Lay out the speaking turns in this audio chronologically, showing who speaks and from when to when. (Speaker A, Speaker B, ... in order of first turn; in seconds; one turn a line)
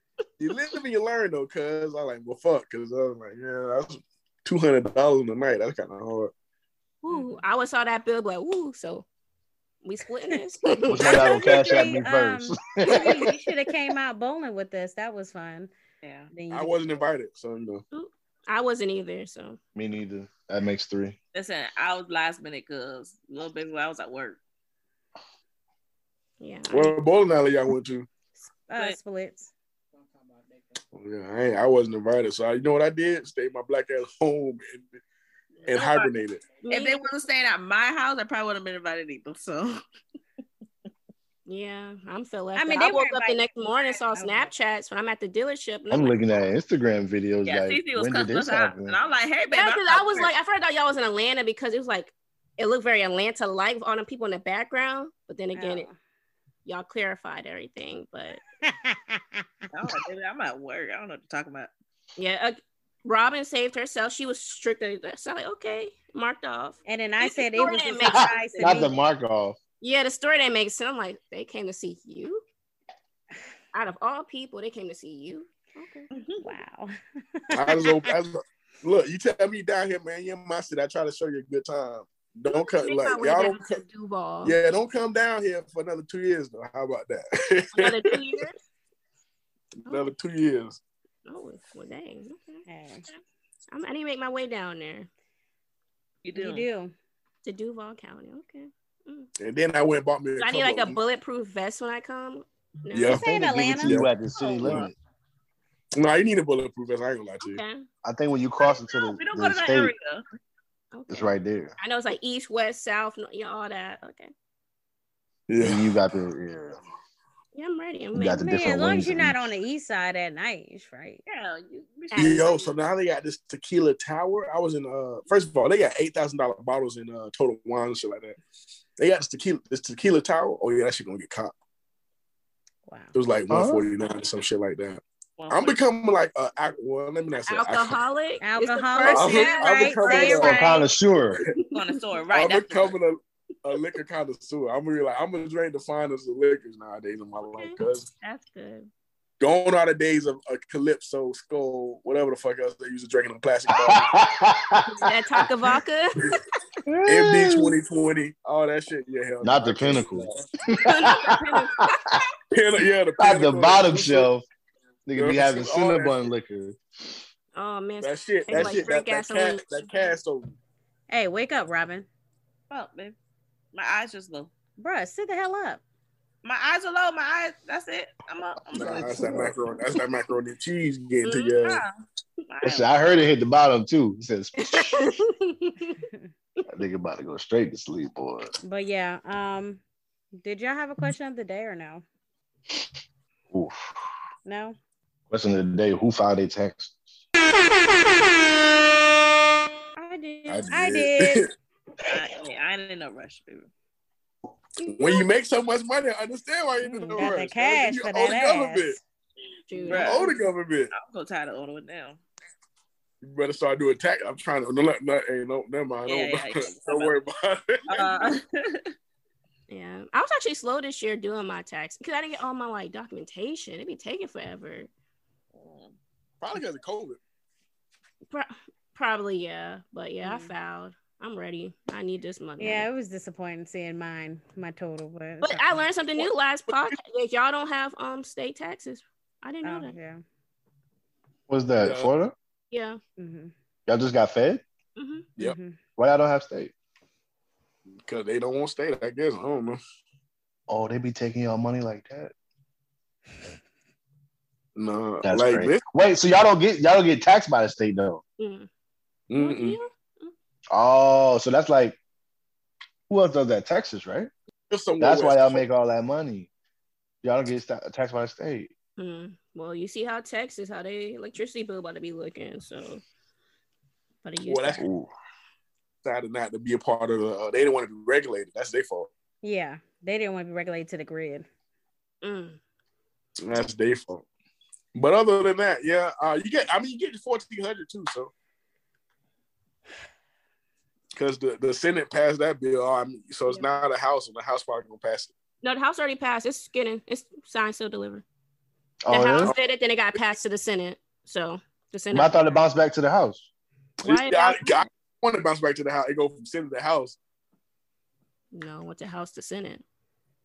Speaker A: 0.4-6.3
Speaker B: 7.0-9.1
Speaker C: 7.1-7.4
Speaker B: 9.8-11.3
Speaker D: 10.9-13.3
Speaker C: 10.9-15.7
Speaker E: 16.0-16.3
Speaker C: 16.3-16.8
Speaker A: 16.5-17.8
Speaker B: 17.9-19.6
Speaker D: 19.7-21.2
Speaker E: 21.3-24.4
Speaker B: 26.4-26.9
Speaker A: 26.7-28.1
Speaker C: 28.7-29.5
Speaker A: 30.9-35.0
Speaker A: 35.6-36.4
Speaker E: 35.7-36.1
Speaker B: 36.6-37.0
Speaker E: 36.7-39.8
Speaker B: 41.5-46.2
Speaker C: 42.5-43.5
Speaker C: 44.1-44.5
Speaker D: 45.9-49.0
Speaker E: 47.4-50.3
Speaker B: 49.5-55.9
Speaker C: 55.5-55.9
Speaker B: 56.6-58.4
Speaker C: 58.6-59.4
Speaker E: 59.7-61.7
Speaker B: 62.2-68.9
Speaker C: 66.8-68.9
Speaker D: 68.1-69.6
Speaker B: 69.8-72.4
Speaker B: 73.7-76.1
Speaker E: 76.1-76.5
Speaker C: 76.4-78.1
Speaker A: 77.5-83.8
Speaker B: 82.5-84.5
Speaker A: 84.4-88.3
Speaker B: 87.7-88.5
Speaker A: 89.8-90.8
Speaker B: 91.2-92.6
Speaker C: 92.7-93.0
Speaker B: 93.7-95.1
Speaker E: 96.2-96.7
Speaker C: 96.3-96.9
Speaker B: 97.4-99.3
Speaker A: 99.4-101.0
Speaker B: 100.4-103.2
Speaker A: 102.9-103.2
Speaker C: 103.0-104.0
Speaker D: 103.2-104.9
Speaker A: 103.8-104.9
Speaker B: 104.4-104.8
Speaker A: 105.9-107.6
Speaker B: 107.4-107.8
Speaker D: 108.0-109.9
Speaker E: 108.8-110.2
Speaker B: 110.9-114.3
Speaker D: 111.1-111.7
Speaker A: 115.5-116.0
Speaker D: 115.6-116.8
Speaker B: 117.5-118.4
Speaker D: 118.1-119.5
Speaker C: 118.4-121.2
Speaker E: 121.2-122.5
Speaker B: 122.1-122.7
Speaker A: 122.2-128.4
Speaker A: 129.0-131.5
Speaker C: 132.9-133.1
Speaker A: 133.1-138.0
Speaker D: 133.5-133.8
Speaker E: 135.4-135.8
Speaker B: 137.5-140.7
Speaker C: 138.4-140.8
Speaker A: 139.1-140.6
Speaker D: 140.4-141.4
Speaker E: 141.7-142.9
Speaker A: 142.3-148.1
Speaker B: 147.5-148.9
Speaker A: 149.4-154.1
Speaker D: 153.7-155.4
Speaker B: 154.9-156.4
Speaker D: 156.9-157.7
Speaker A: 157.1-160.4
Speaker D: 159.4-162.1
Speaker B: 160.8-161.9
Speaker A: 162.5-164.3
Speaker D: 163.2-164.4
Speaker D: 165.1-166.8
Speaker A: 165.2-166.2
Speaker B: 167.5-169.9
Speaker A: 168.0-170.5
Speaker D: 168.5-168.8
Speaker C: 171.1-172.1
Speaker E: 172.7-173.2
Speaker E: 173.7-174.5
Speaker C: 174.8-175.8
Speaker E: 176.4-179.5
Speaker A: 178.7-181.8
Speaker B: 181.2-181.6
Speaker E: 181.6-181.9
Speaker E: 182.5-183.2
Speaker D: 182.6-185.1
Speaker B: 184.6-186.0
Speaker D: 186.7-188.5
Speaker C: 188.6-189.8
Speaker C: 190.4-192.0
Speaker D: 193.5-193.9
Speaker C: 194.4-194.8
Speaker D: 195.3-197.1
Speaker B: 200.0-200.7
Speaker A: 200.6-201.5
Speaker C: 200.7-201.5
Speaker E: 202.1-203.7
Speaker B: 204.8-205.3
Speaker A: 204.8-209.0
Speaker C: 206.8-209.0
Speaker B: 209.7-210.4
Speaker A: 209.8-210.9
Speaker E: 209.8-210.3
Speaker E: 210.9-212.2
Speaker A: 213.2-218.2
Speaker E: 216.1-217.2
Speaker E: 217.9-218.9
Speaker B: 219.7-224.9
Speaker E: 225.5-225.9
Speaker A: 226.4-227.2
Speaker B: 228.3-232.8
Speaker C: 230.2-230.5
Speaker C: 232.6-235.7
Speaker B: 235.4-239.9
Speaker A: 236.2-236.9
Speaker C: 239.6-240.2
Speaker D: 241.5-242.3
Speaker A: 241.8-242.1
Speaker B: 242.7-243.0
Speaker C: 243.2-243.5
Speaker D: 243.9-244.6
Speaker B: 245.0-245.3
Speaker C: 245.4-245.8
Speaker D: 246.0-246.7
Speaker A: 248.0-249.8
Speaker D: 250.7-252.3
Speaker A: 254.8-255.8
Speaker D: 255.2-258.2
Speaker B: 258.4-258.7
Speaker A: 259.3-259.8
Speaker B: 259.3-260.3
Speaker D: 260.7-262.0
Speaker D: 263.1-264.3
Speaker A: 264.7-265.6
Speaker D: 265.0-266.5
Speaker D: 267.2-268.7
Speaker B: 269.0-273.0
Speaker B: 274.2-274.8
Speaker A: 274.4-275.1
Speaker A: 276.0-279.1
Speaker C: 279.4-281.4
Speaker B: 282.2-282.6
Speaker A: 283.4-284.2
Speaker A: 284.9-288.3
Speaker A: 291.1-295.3
Speaker B: 295.6-298.2
Speaker D: 299.1-299.5
Speaker B: 299.1-302.6
Speaker D: 302.1-303.5
Speaker A: 304.0-307.2
Speaker B: 304.0-304.8
Speaker B: 308.5-309.8